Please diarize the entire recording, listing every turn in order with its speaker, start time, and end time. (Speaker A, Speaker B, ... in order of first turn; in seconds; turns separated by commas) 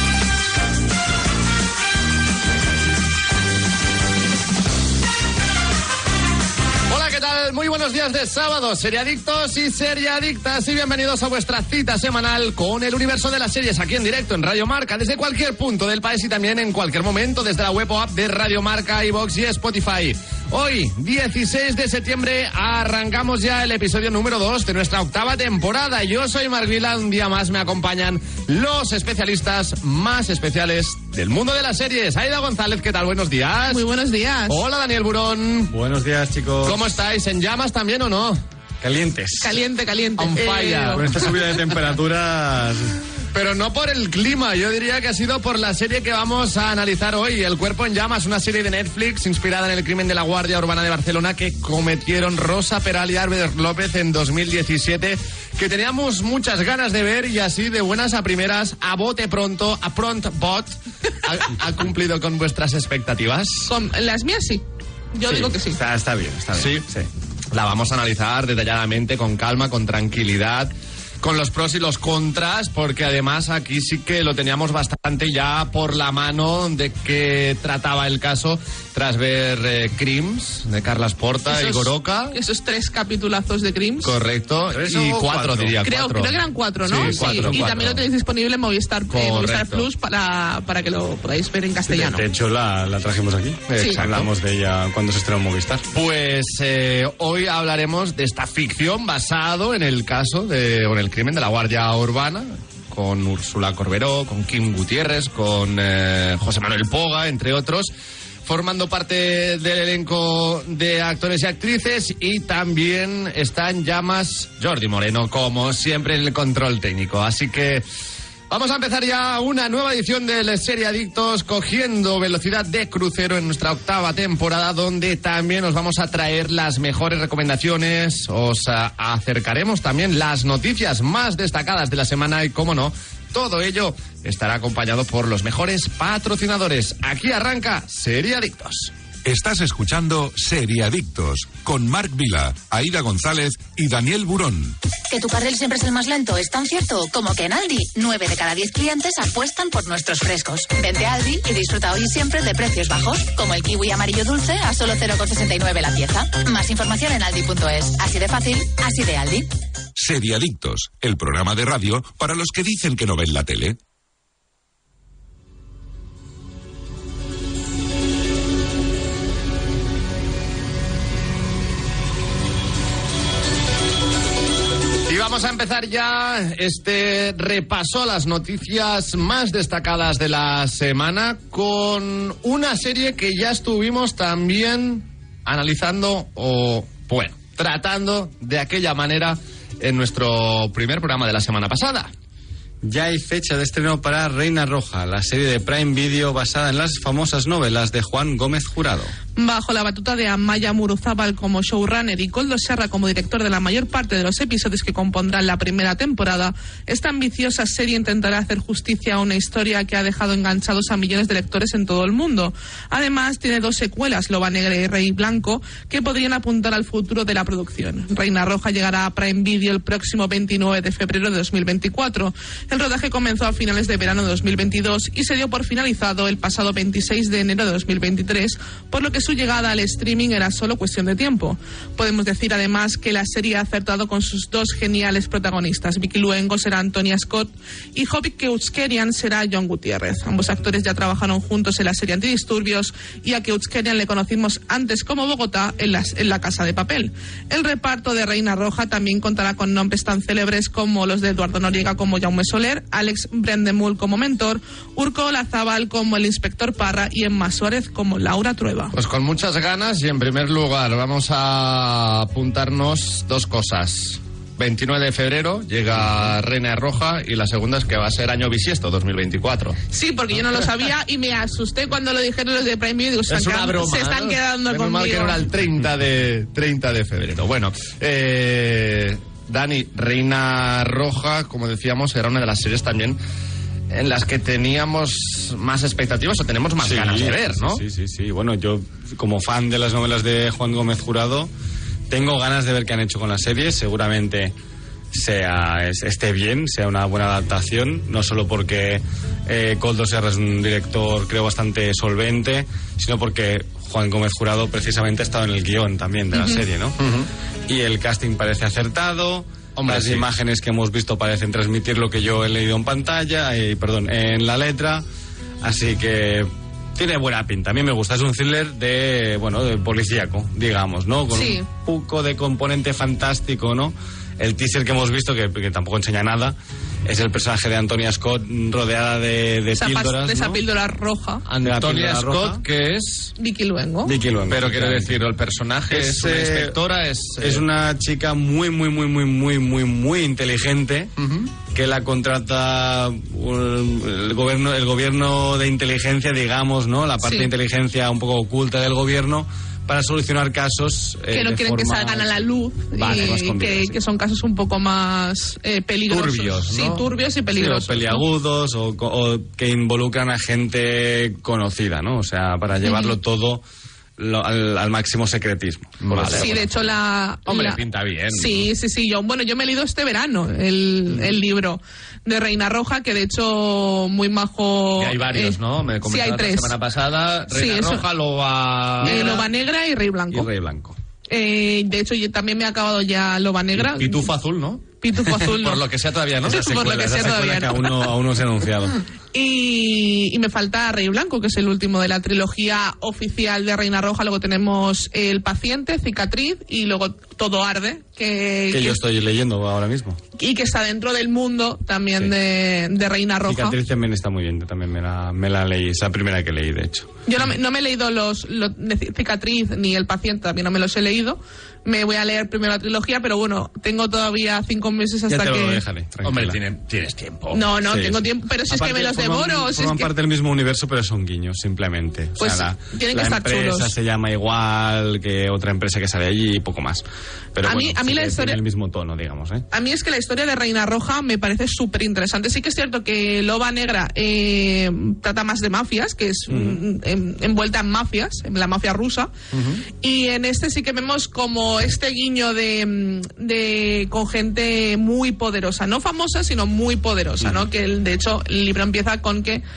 Speaker A: 6.9-33.8, Speaker B: 33.7-34.6, Speaker A: 34.5-35.7, Speaker C: 35.7-36.8, Speaker A: 36.6-38.4, Speaker C: 38.8-39.6, Speaker B: 39.4-41.0, Speaker A: 40.2-41.5, Speaker C: 40.9-43.0, Speaker A: 43.3-63.7, Speaker B: 63.7-65.8, Speaker C: 65.3-67.1, Speaker A: 66.5-66.8, Speaker A: 67.5-82.4, Speaker B: 81.5-84.2, Speaker A: 84.0-88.0, Speaker C: 84.7-85.8, Speaker B: 85.8-92.2, Speaker C: 86.9-88.0, Speaker A: 89.1-89.9, Speaker C: 91.9-95.8, Speaker A: 93.7-94.3, Speaker A: 95.9-107.9, Speaker A: 108.4-117.8, Speaker A: 118.5-138.9, Speaker D: 139.2-144.8, Speaker E: 145.1-159.5, Speaker D: 159.9-163.8, Speaker A: 175.0-192.1, Speaker C: 192.8-199.1, Speaker B: 199.3-258.9, Speaker A: 258.9-269.8, Speaker B: 269.9-275.4, Speaker A: 273.3-283.2, Speaker A: 283.9-287.8, Speaker C: 286.8-291.5, Speaker C: 292.1-294.5, Speaker C: 295.1-307.0, Speaker B: 306.3-306.6, Speaker A: 307.0-307.3, Speaker C: 307.7-315.0, Speaker A: 309.8-310.2, Speaker C: 315.6-330.6, Speaker B: 321.3-321.6, Speaker B: 329.7-331.4, Speaker A: 331.4-333.3, Speaker C: 331.6-332.6, Speaker B: 333.4-334.1, Speaker C: 334.0-335.2, Speaker A: 334.5-337.6, Speaker C: 335.9-336.8, Speaker C: 337.4-341.1, Speaker A: 341.2-341.5, Speaker C: 341.7-354.0, Speaker B: 347.2-347.5, Speaker B: 351.3-358.2, Speaker A: 356.1-357.1, Speaker C: 357.5-363.6, Speaker B: 362.8-363.1, Speaker C: 364.2-366.8, Speaker A: 366.0-366.5, Speaker B: 366.3-367.8, Speaker A: 367.4-368.7, Speaker B: 368.3-376.7, Speaker A: 375.0-379.4, Speaker B: 377.5-378.0, Speaker B: 379.0-380.5, Speaker C: 379.0-379.5, Speaker C: 380.3-381.0, Speaker B: 381.3-384.3, Speaker A: 383.7-386.6, Speaker B: 385.0-385.8, Speaker B: 386.4-388.1, Speaker C: 386.4-389.0, Speaker B: 389.3-399.0, Speaker C: 398.7-400.2, Speaker B: 400.4-403.8, Speaker C: 403.4-407.2, Speaker B: 407.2-415.8, Speaker C: 415.3-416.6, Speaker A: 416.2-417.7, Speaker B: 417.5-420.1, Speaker C: 417.9-429.6, Speaker B: 422.4-423.9, Speaker B: 427.6-428.6, Speaker B: 429.7-439.3, Speaker C: 436.5-436.8, Speaker A: 439.5-439.8, Speaker B: 440.0-449.6